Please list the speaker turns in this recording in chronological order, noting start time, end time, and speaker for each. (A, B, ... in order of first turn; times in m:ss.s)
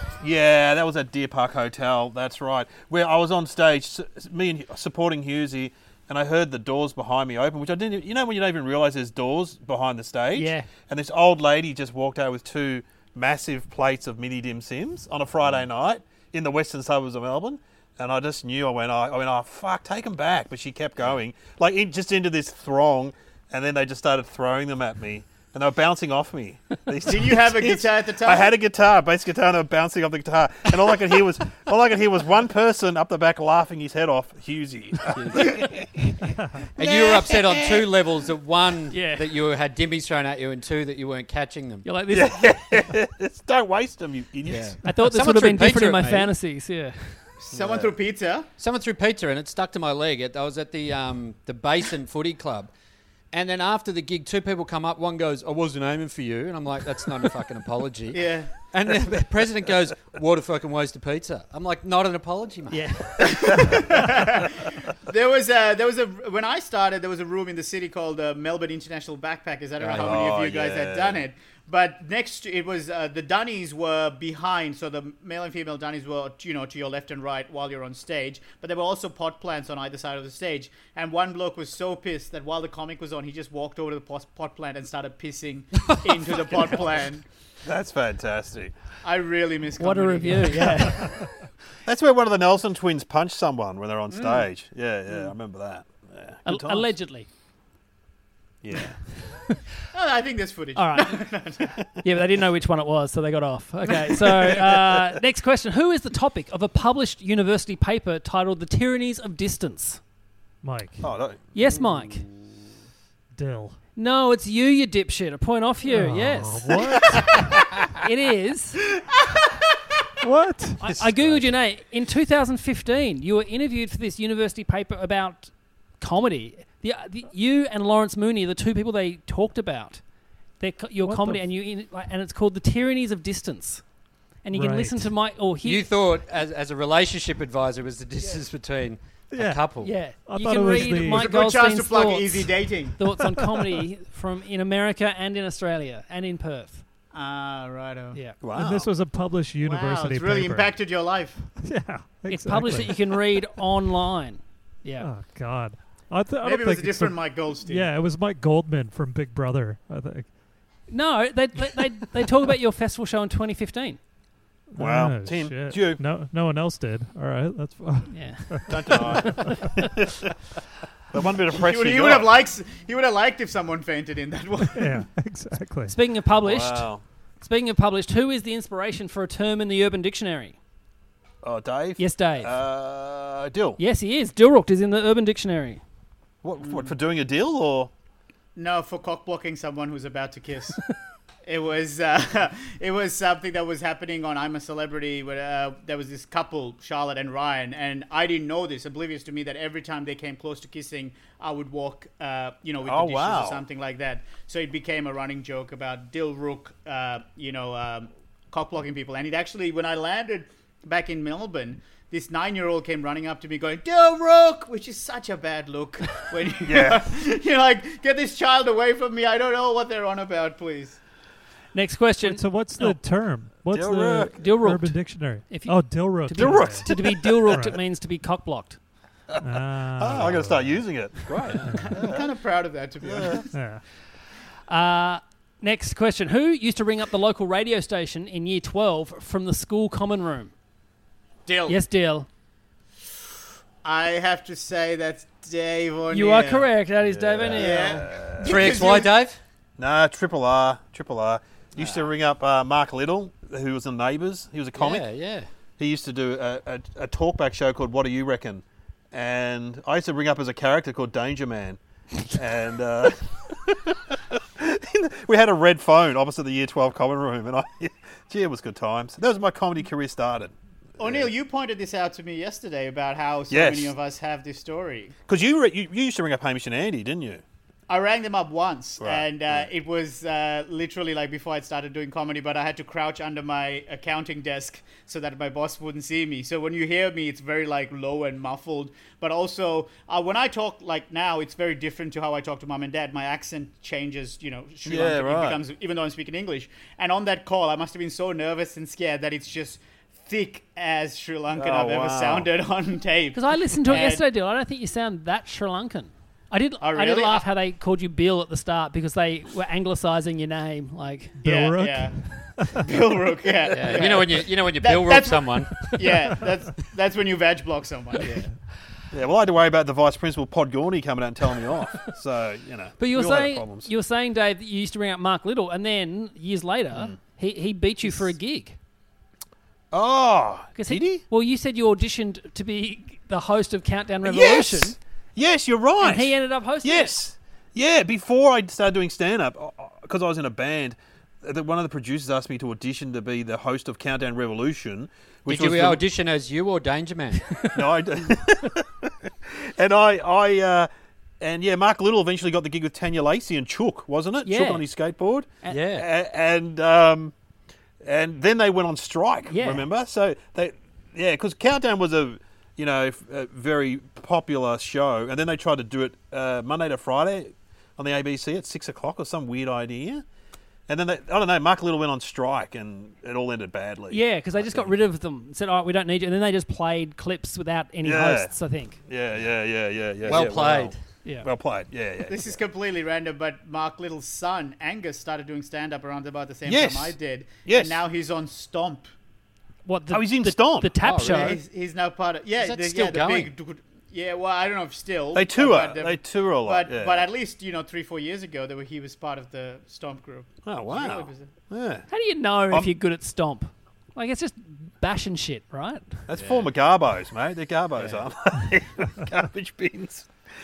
0:00.2-0:36.1 A
0:10.3-0:10.7 B
0:27.0-0:28.5 C
0:35.1-0:35.6 D
0:36.8-0:41.9 D
0:36.8-0:37.9 A
0:38.9-0:39.3 B
0:41.8-0:42.8 B
0:42.1-0:44.8 A
0:44.5-0:46.3 D
0:44.8-0:47.2 B
0:47.4-0:48.5 C
0:47.6-0:47.9 A
0:48.6-0:52.7 D
0:53.3-1:02.9 D
0:58.1-0:58.6 C
1:02.7-1:03.4 B
1:03.2-1:27.2 C
1:09.8-1:10.2 D
1:09.9-1:11.2 A
1:27.6-1:28.7 A
1:29.0-1:30.9 C
1:29.8-1:31.3 B
1:31.8-1:36.9 A
1:34.1-1:34.4 C
1:36.5-1:37.3 B
1:38.6-1:39.1 A
1:39.3-1:39.6 B
1:39.9-1:41.8 C
1:40.8-1:41.3 B
1:42.0-1:50.0 B
1:50.6-1:51.1 E
1:51.0-1:51.4 A
1:51.5-1:52.2 B
1:53.4-1:53.8 E
1:54.0-1:57.2 B
1:55.9-1:57.4 E
1:58.0-1:58.8 B
2:00.2-2:00.9 E
2:00.8-2:10.0 B
2:10.6-2:13.8 B
2:11.0-2:11.4 E
2:14.4-2:15.9 B
2:14.5-2:15.2 E
2:15.6-2:20.0 D
2:19.3-2:21.4 E
2:19.8-2:26.8 B
2:21.0-2:23.0 C
2:27.1-2:28.2 C
2:28.1-2:28.4 B
2:28.4-2:28.9 A
2:28.5-2:30.8 E
2:29.6-2:31.5 C
2:31.5-2:33.2 E
2:32.3-2:35.1 B
2:35.0-2:40.3 E
2:36.4-2:37.9 C
2:40.9-2:44.0 B
2:44.7-2:49.8 E
2:44.8-2:46.0 A
2:48.1-2:49.7 B
2:48.7-2:50.3 A
2:51.1-2:52.3 A
2:51.5-2:55.1 C
2:54.8-2:56.0 E
2:55.9-3:00.6 B
2:56.4-2:57.0 A
3:01.4-3:03.8 A
3:02.0-3:02.5 B
3:03.8-3:05.8 B
3:06.4-3:07.9 A
3:06.6-3:06.9 C
3:08.6-3:10.8 C
3:11.4-3:41.0 C
3:22.8-3:23.6 A
3:36.6-3:37.0 A
3:41.7-3:43.0 B
3:42.2-3:47.8 E
3:43.7-3:44.4 A
3:44.3-3:48.8 B
3:46.4-3:47.4 A
3:49.4-3:50.8 E
3:50.0-3:52.3 A
3:51.6-3:52.0 E
3:51.8-3:53.5 C
3:53.0-3:53.4 A
3:53.5-3:53.8 E
3:54.7-4:00.5 B
4:01.5-4:01.8 C
4:01.7-4:02.3 B
4:03.8-4:06.7 C
4:06.1-4:08.1 B
4:07.0-4:08.8 A
4:07.5-4:09.1 C
4:08.4-4:09.4 D
4:09.8-4:15.0 A
4:11.8-4:12.1 D
4:14.8-4:15.5 D
4:15.8-4:31.3 A
4:31.0-4:35.2 C
4:33.5-4:33.9 A
4:35.3-4:37.4 A
4:37.9-5:04.2 C
4:39.0-4:39.7 A
4:54.8-4:55.6 A
5:01.5-5:02.5 A
5:03.3-5:11.4 B
5:06.8-5:07.5 C
5:11.4-5:12.2 C
5:11.4-5:13.0 E
5:12.8-5:18.4 C
5:13.7-5:15.9 D
5:19.1-5:23.9 A
5:23.0-5:28.8 B
5:29.9-5:31.2 A
5:30.8-5:35.0 B
5:34.2-5:46.0 A
5:36.0-5:37.2 B
5:45.5-5:47.6 D
5:47.7-5:50.9 A
5:51.4-5:57.3 A
5:54.4-5:54.8 B
5:55.7-5:56.1 D
5:58.0-6:10.2 A
5:59.5-5:59.9 B
6:10.9-6:14.9 A
6:14.1-6:19.0 B
6:18.0-6:22.6 A
6:20.2-6:21.0 D
6:22.3-6:29.1 C
6:26.7-6:28.0 A
6:29.9-6:31.6 B
6:30.1-6:31.0 A
6:31.0-6:31.6 D
6:31.2-6:41.5 C
6:32.6-6:33.5 D
6:35.3-6:37.3 A
6:40.6-6:42.1 A
6:42.1-6:46.2 B
6:46.3-6:50.3 A
6:46.4-6:46.7 D
6:48.0-6:48.3 D